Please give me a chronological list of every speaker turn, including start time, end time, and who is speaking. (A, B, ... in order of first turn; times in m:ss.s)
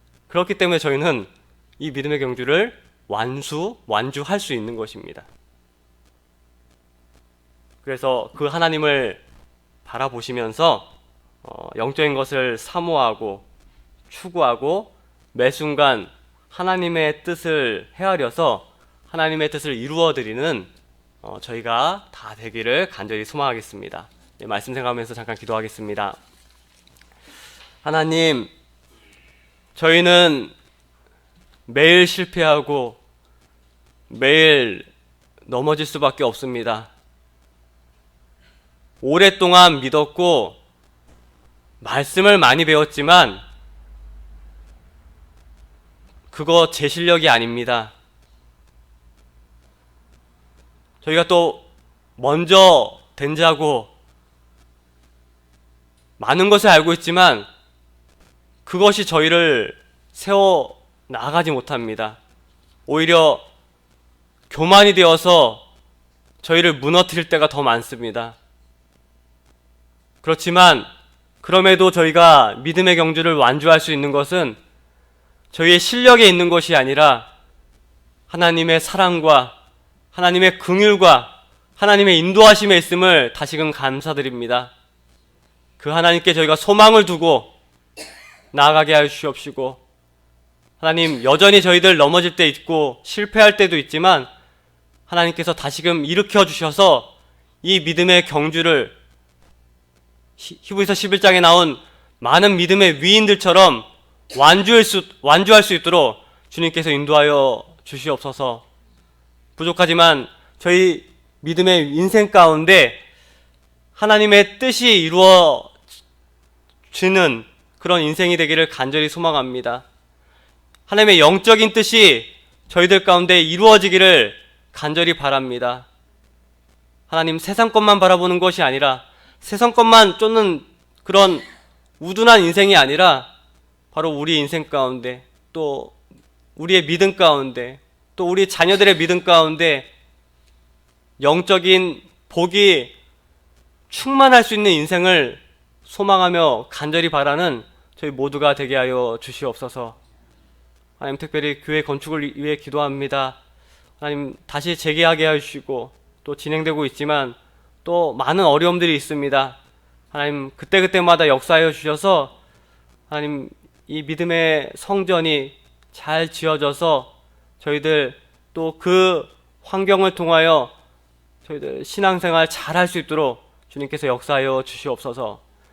0:00.3-0:05.3 A
0:07.8-0:09.2 A
0:09.8-0:13.4 A
0:14.1-0:20.7 A
0:21.2-0:26.2 A
0:27.8-0:28.5 A
0:29.7-0:30.5 A
0:31.7-0:33.0 A
0:34.1-0:34.9 A
0:35.4-0:36.9 A
0:39.0-0:40.6 A
0:41.8-0:43.4 A
0:46.3-0:47.9 A
0:51.0-0:53.9 A
0:56.2-0:57.5 A
0:58.6-1:02.2 A
1:02.9-1:03.4 A
1:04.5-1:05.6 A
1:06.4-1:08.4 A
1:10.2-1:10.9 A
1:11.4-1:14.6 A
1:15.5-1:17.3 A
1:18.3-1:19.6 A
1:20.1-1:24.7 A
1:25.8-1:27.5 A
1:28.5-1:29.8 A
1:30.8-1:34.3 A
1:35.1-1:39.0 A
1:40.4-1:48.6 A
1:49.6-1:53.0 A
1:54.0-1:55.7 A
1:56.9-1:59.8 A
2:00.9-2:05.9 A
2:07.1-2:11.4 A
2:12.0-2:13.3 A
2:13.9-2:16.0 A
2:16.6-2:19.9 A
2:21.2-2:22.9 A
2:23.9-2:30.0 A
2:31.0-2:33.4 A
2:34.0-2:39.6 A
2:40.1-2:42.3 A
2:43.1-2:50.7 A
2:51.4-2:55.4 A